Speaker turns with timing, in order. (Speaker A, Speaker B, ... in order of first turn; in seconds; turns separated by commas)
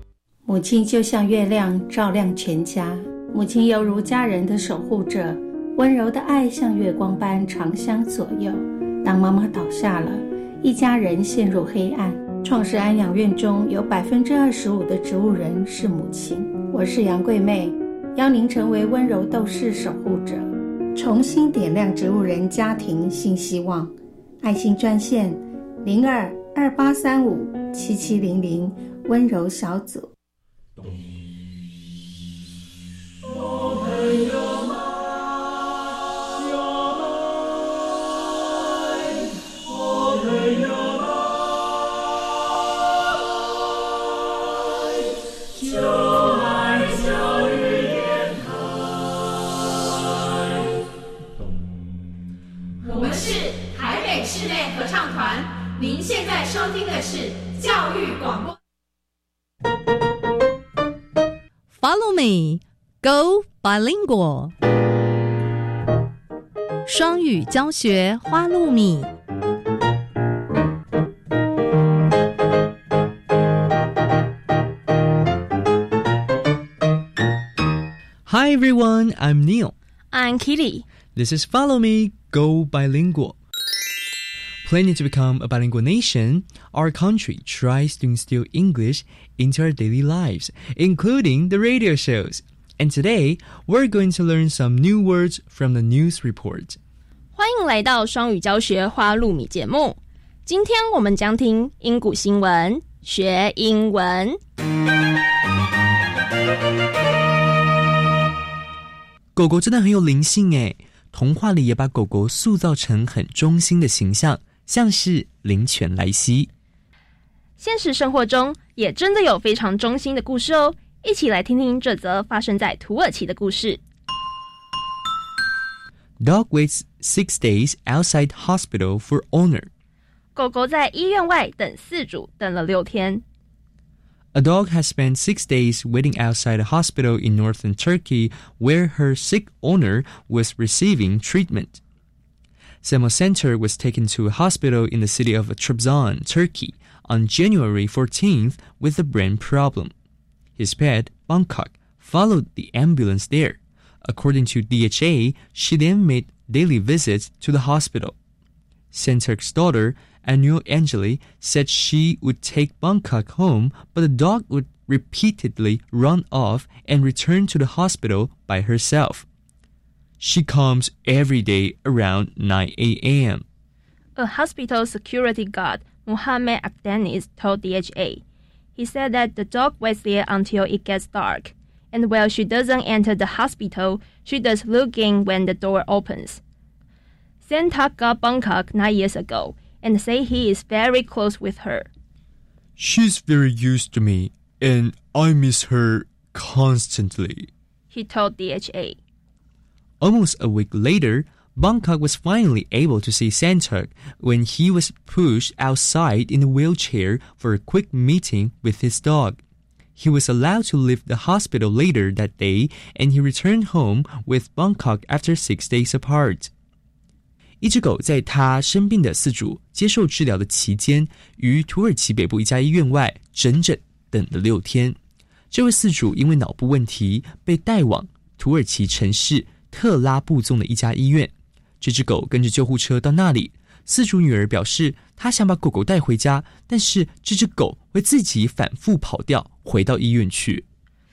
Speaker A: 0.5-30.1, Speaker B: 52.9-55.3, Speaker B: 56.0-58.4, Speaker C: 61.7-64.5, Speaker C: 66.8-69.1, Speaker D: 78.2-79.7, Speaker E: 80.1-80.8, Speaker D: 81.2-83.4, Speaker D: 84.6-96.8, Speaker E: 97.3-104.4, Speaker D: 109.3-116.5, Speaker E: 117.6-123.8, Speaker D: 126.2-129.7, Speaker E: 130.3-133.2, Speaker D: 134.3-141.8, Speaker D: 142.8-149.9, Speaker D: 150.6-158.1, Speaker D: 158.9-169.2, Speaker D: 170.2-173.4, Speaker E: 174.2-178.2, Speaker E: 178.8-186.4, Speaker E: 187.4-191.9, Speaker D: 192.8-197.5, Speaker E: 197.9-199.0, Speaker D: 200.0-209.4, Speaker D: 210.0-216.5, Speaker D: 217.6-224.9, Speaker D: 225.5-240.6